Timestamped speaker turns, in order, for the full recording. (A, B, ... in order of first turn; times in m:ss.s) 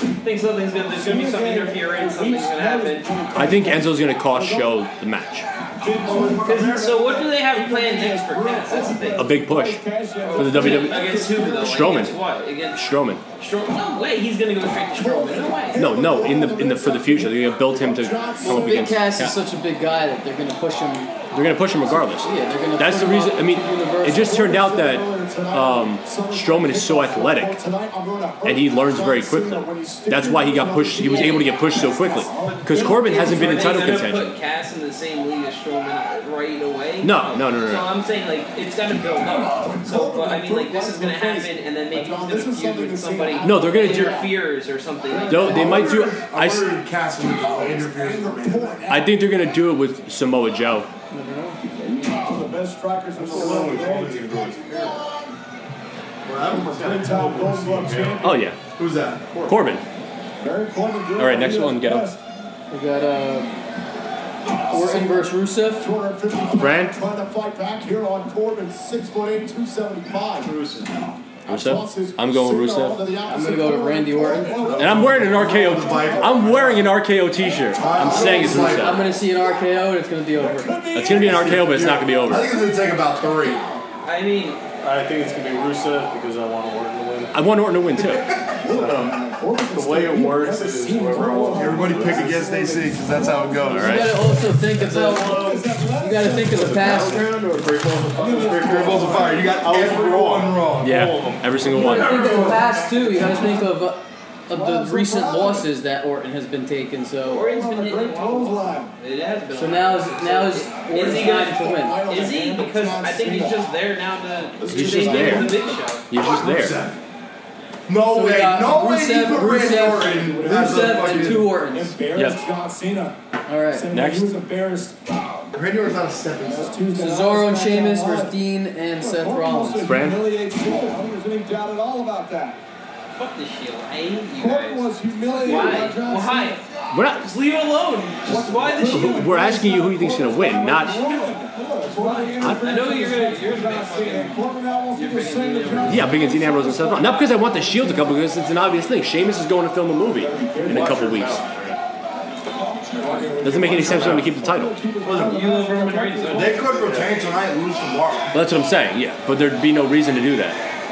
0:00.2-0:03.2 A
0:00.8-0:04.9 B
0:03.3-0:05.5 C
0:05.7-0:11.9 B
0:05.8-0:07.1 D
0:06.4-0:09.3 A
0:09.1-0:09.8 C
0:10.2-0:12.8 A
0:10.3-0:12.2 C
0:12.7-0:13.2 C
0:13.4-0:15.8 A
0:14.9-0:19.1 B
0:15.8-0:19.4 C
0:18.4-0:21.2 E
0:21.3-0:27.6 C
0:22.2-0:24.4 E
0:24.1-0:34.1 B
0:28.4-0:34.3 C
0:31.1-0:31.4 E
0:32.4-0:45.6 A
0:37.0-0:37.9 C
0:39.3-0:44.4 B
0:43.4-0:44.2 C
0:45.1-0:46.2 B
0:45.2-0:46.7 C
0:45.4-0:48.8 D
0:47.3-0:49.5 B
0:48.9-0:50.9 C
0:51.1-0:51.6 E
0:51.8-0:55.4 B
0:53.2-0:54.9 F
0:53.3-0:54.0 D
0:54.7-0:55.0 A
0:56.2-0:57.1 D
0:56.5-0:58.4 B
0:56.5-0:58.5 F
0:58.2-0:58.6 C
0:58.6-0:59.4 D
0:59.3-0:59.6 F
0:59.5-0:59.8 C
1:00.4-1:02.2 B
1:01.2-1:02.1 C
1:02.7-1:03.5 E
1:04.5-1:10.6 B
1:04.7-1:05.9 E
1:06.6-1:07.0 C
1:10.4-1:10.9 F
1:11.5-1:13.0 C
1:11.5-1:19.6 B
1:13.3-1:14.6 E
1:14.2-1:16.9 D
1:14.7-1:19.0 C
1:17.8-1:19.0 D
1:18.7-1:20.8 E
1:20.4-1:23.8 B
1:20.9-1:22.6 C
1:21.1-1:23.6 D
1:24.0-1:24.6 A
1:24.8-1:27.4 F
1:27.3-1:28.4 C
1:28.0-1:28.6 D
1:28.6-1:37.3 B
1:28.6-1:32.4 F
1:31.2-1:34.1 D
1:33.7-1:34.1 C
1:33.8-1:35.5 E
1:34.7-1:42.6 F
1:36.0-1:37.3 E
1:38.1-1:39.6 B
1:38.6-1:41.1 D
1:40.8-1:42.4 C
1:41.7-1:47.5 E
1:41.8-1:43.8 B
1:44.5-1:45.7 B
1:47.3-1:56.1 A
1:47.3-1:48.9 B
1:49.5-1:52.0 E
1:50.8-1:53.6 B
1:54.6-1:55.8 B
1:54.6-1:56.8 C
1:56.1-1:57.0 D
1:57.9-2:01.5 D
1:58.1-2:02.0 E
1:59.2-2:03.2 B
2:02.1-2:02.4 C
2:03.5-2:03.9 E
2:03.7-2:05.5 B
2:03.9-2:04.3 C
2:05.5-2:06.8 D
2:06.4-2:08.4 B
2:06.9-2:09.9 E
2:09.0-2:12.6 B
2:09.8-2:10.3 C
2:13.2-2:16.6 A
2:14.4-2:16.6 B
2:16.9-2:17.3 C
2:17.2-2:19.2 A
2:18.3-2:28.4 B
2:18.3-2:21.0 C
2:20.9-2:21.3 A
2:21.8-2:26.2 A
2:22.4-2:22.8 C
2:25.8-2:31.5 C
2:30.1-2:31.1 B
2:30.7-2:31.8 F
2:32.4-2:36.8 B
2:33.0-2:34.2 D
2:33.4-2:34.8 C
2:33.7-2:34.3 F
2:35.0-2:37.1 A
2:36.3-2:38.4 D
2:36.8-2:37.2 F
2:38.3-2:40.6 C